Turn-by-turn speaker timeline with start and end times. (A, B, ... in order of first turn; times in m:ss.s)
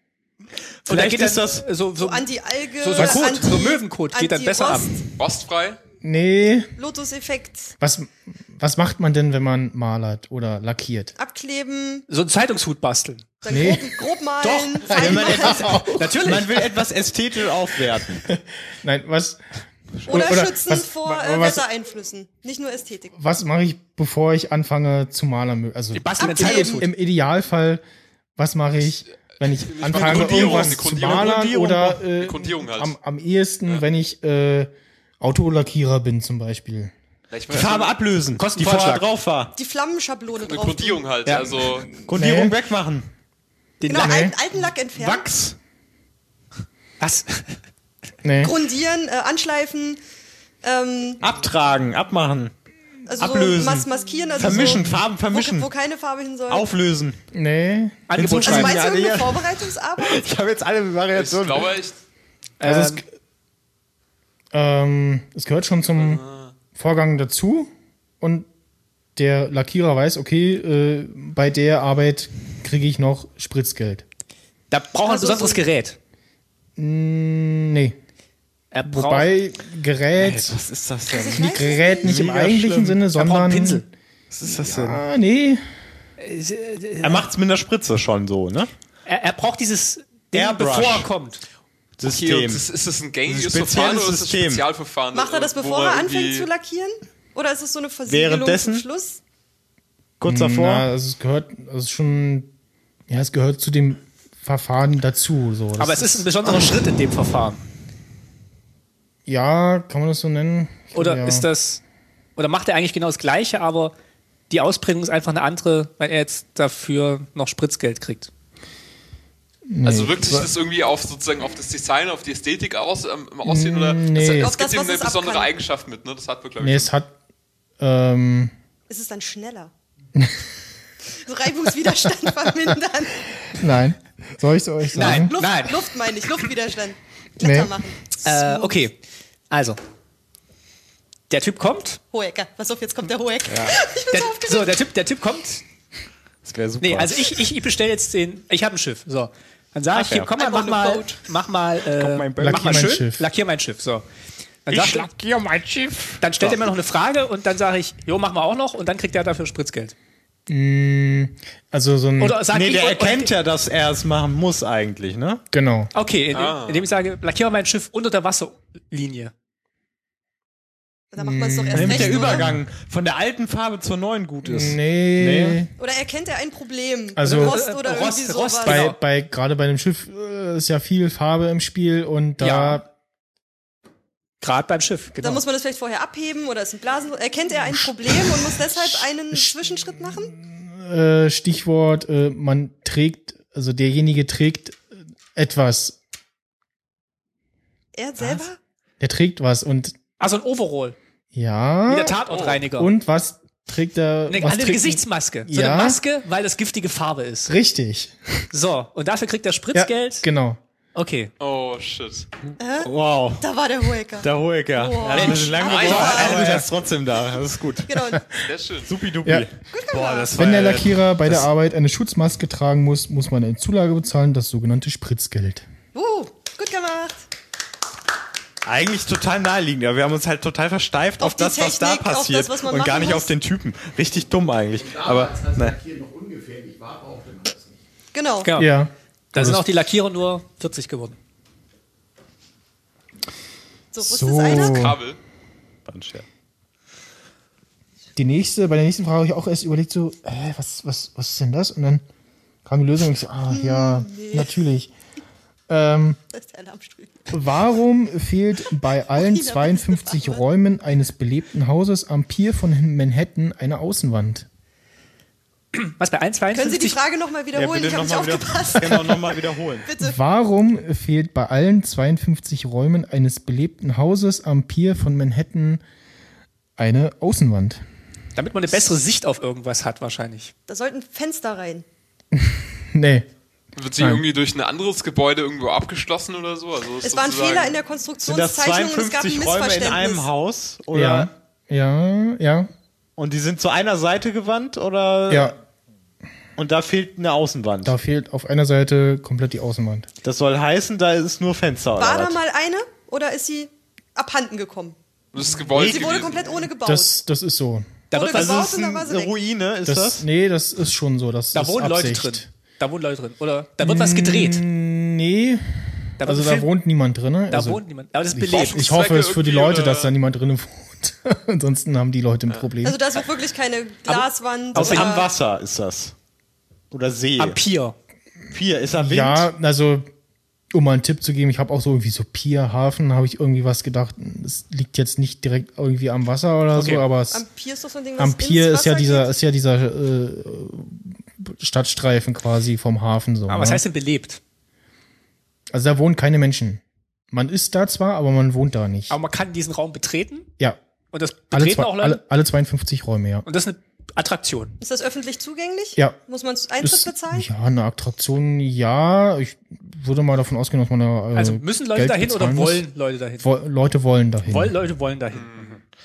0:00.8-0:01.6 A
0:00.9-0:02.3 B
0:01.9-0:05.0 C
0:02.8-0:04.9 B
0:05.2-0:05.8 D
0:06.0-0:06.7 E
0:06.8-0:07.7 C
0:07.8-0:11.1 E
0:11.2-0:12.0 C
0:12.1-0:13.3 B
0:13.4-0:15.9 C
0:13.5-0:13.9 E
0:14.4-0:18.2 A
0:15.0-0:16.2 E
0:15.0-0:16.6 B
0:18.2-0:19.4 E
0:20.0-0:21.7 E
0:20.0-0:23.1 C
0:23.2-0:27.8 E
0:25.9-0:26.9 B
0:26.2-0:26.8 C
0:28.4-0:36.9 E
0:29.4-0:31.5 D
0:29.9-0:32.0 A
0:32.1-0:32.9 D
0:37.3-0:38.0 D
0:37.5-0:39.5 A
0:38.3-0:39.0 B
0:39.6-0:41.0 C
0:40.3-0:41.9 D
0:41.2-0:41.5 B
0:42.0-0:42.6 E
0:42.1-0:43.1 A
0:43.8-0:44.3 B
0:43.8-0:45.3 C
0:44.0-0:44.4 E
0:44.9-0:45.6 A
0:47.0-0:47.6 B
0:48.2-0:48.5 E
0:48.4-0:50.0 C
0:50.6-0:51.2 C
0:51.2-0:52.5 A
0:53.0-0:56.7 C
0:53.2-0:55.7 A
0:54.5-0:54.8 E
0:56.5-0:57.2 A
0:57.3-0:58.0 E
0:58.1-0:59.0 B
0:58.2-1:01.7 A
0:58.4-1:00.2 C
1:01.1-1:02.0 D
1:02.6-1:03.0 B
1:02.6-1:03.0 E
1:04.5-1:06.2 E
1:06.0-1:06.5 D
1:06.7-1:08.5 E
1:09.2-1:14.0 E
1:14.7-1:16.0 B
1:15.0-1:15.6 C
1:16.8-1:18.0 E
1:18.7-1:19.3 B
1:18.8-1:20.6 E
1:20.2-1:22.9 A
1:21.1-1:22.2 C
1:21.4-1:23.9 E
1:22.8-1:23.8 B
1:24.3-1:25.0 A
1:24.4-1:25.6 E
1:26.2-1:27.3 B
1:27.0-1:28.7 A
1:29.0-1:31.4 B
1:30.3-1:31.1 A
1:32.0-1:32.6 A
1:32.0-1:36.5 D
1:33.3-1:34.6 A
1:35.1-1:39.2 C
1:38.1-1:38.9 A
1:40.2-1:40.9 A
1:40.3-1:42.5 E
1:43.1-1:46.3 E
1:45.8-1:47.6 B
1:49.2-1:51.5 E
1:50.9-1:51.8 B
1:52.4-1:53.9 B
1:54.5-1:58.3 B
1:59.7-2:00.5 E
1:59.8-2:06.9 D
2:03.4-2:04.5 E
2:04.2-2:05.5 C
2:06.6-2:07.1 E
2:07.8-2:08.5 E
2:08.9-2:09.7 C
2:11.2-2:13.2 C
2:13.5-2:15.3 E
2:14.9-2:15.9 B
2:15.0-2:18.7 C
2:17.4-2:17.7 E
2:18.2-2:19.0 B
2:19.5-2:19.8 B
2:21.3-2:22.0 B
2:22.1-2:24.8 C
2:23.5-2:23.8 A
2:24.1-2:25.6 B
2:26.4-2:27.4 A
2:26.8-2:34.0 B
2:29.9-2:30.4 A
2:30.4-2:31.2 C
2:31.9-2:32.9 A
2:32.4-2:33.2 E
2:34.6-2:35.1 B
2:34.7-2:36.6 A
2:36.2-2:39.9 B
2:40.5-2:42.4 E
2:42.2-2:43.3 B
2:42.5-2:45.4 A
2:45.5-2:45.9 E
2:45.9-2:49.3 B
2:46.3-2:46.9 D
2:51.1-2:52.5 C
2:51.2-2:52.6 E
2:51.7-2:55.6 A
2:54.4-2:55.7 E
2:55.8-2:58.8 C
2:57.2-2:57.6 E
2:57.2-2:59.0 B
2:58.6-3:02.9 E
3:02.4-3:02.8 B
3:04.4-3:05.4 B
3:05.2-3:10.3 C
3:07.8-3:14.8 E
3:15.3-3:16.0 E
3:17.9-3:18.6 C
3:19.0-3:20.0 E
3:20.2-3:21.0 B
3:21.3-3:26.0 E
3:21.9-3:22.9 B
3:22.3-3:22.6 D
3:24.3-3:27.5 B
3:27.5-3:28.4 E
3:28.5-3:30.3 B
3:29.7-3:30.6 E
3:30.9-3:31.3 B
3:31.4-3:32.3 D
3:32.6-3:32.9 C
3:32.8-3:33.4 A
3:33.4-3:36.6 C
3:34.2-3:38.0 A
3:35.0-3:36.6 B
3:35.5-3:36.2 D
3:36.2-3:36.6 E
3:37.9-3:38.2 C
3:38.1-3:38.4 E
3:38.4-3:38.9 D
3:38.8-3:41.4 A
3:39.7-3:40.4 C
3:40.3-3:45.6 E
3:45.9-3:47.2 C
3:48.6-3:55.8 A
3:51.2-3:53.3 C
3:54.7-3:57.8 F
3:58.1-3:58.5 C
3:58.4-3:58.7 B
3:58.6-3:59.6 E
3:59.3-4:01.2 B
4:03.9-4:04.9 C
4:04.0-4:05.0 E
4:04.5-4:05.2 D
4:05.9-4:06.2 A
4:08.2-4:12.0 E
4:12.6-4:14.9 E
4:13.5-4:14.6 C
4:15.7-4:16.2 E
4:16.3-4:17.4 C
4:17.3-4:24.5 E
4:19.1-4:20.4 C
4:25.7-4:27.0 B
4:26.5-4:29.3 C
4:27.5-4:29.9 A
4:29.8-4:30.2 C
4:30.0-4:35.8 E
4:36.8-4:37.8 E
4:38.3-4:40.5 B
4:40.7-4:41.8 C
4:42.3-4:43.3 E
4:43.8-4:47.8 D
4:44.0-4:44.2 E
4:47.0-4:50.3 C
4:48.2-4:51.3 A
4:50.9-4:52.7 E
4:53.2-4:55.5 A
4:55.3-4:55.6 E
4:56.6-4:57.9 A
4:57.8-5:00.1 E
5:00.2-5:02.4 A
5:02.0-5:05.0 C
5:05.3-5:06.5 D
5:05.7-5:06.3 A
5:05.8-5:07.1 C
5:06.8-5:08.0 E
5:08.1-5:08.6 B
5:08.1-5:09.3 C
5:08.3-5:10.2 A
5:09.8-5:12.5 E
5:11.5-5:14.6 B
5:13.8-5:23.0 E
5:16.2-5:16.7 B
5:17.5-5:18.8 B
5:18.5-5:20.1 D
5:22.8-5:25.3 C
5:24.0-5:25.1 B
5:24.7-5:26.1 A
5:26.9-5:27.6 A
5:27.4-5:28.0 B
5:28.5-5:29.5 A
5:29.0-5:30.1 E
5:30.7-5:37.4 E
5:36.7-5:37.0 B
5:37.3-5:39.3 C
5:38.2-5:43.8 E
5:43.5-5:44.4 B
5:45.7-5:49.2 E
5:49.1-5:50.5 B
5:51.1-5:52.2 B
5:51.5-5:53.4 E
5:53.4-5:54.8 B
5:54.8-5:57.5 C
5:56.8-6:02.9 E
6:01.3-6:03.5 B
6:03.4-6:04.8 E
6:04.5-6:05.8 B
6:05.3-6:05.7 D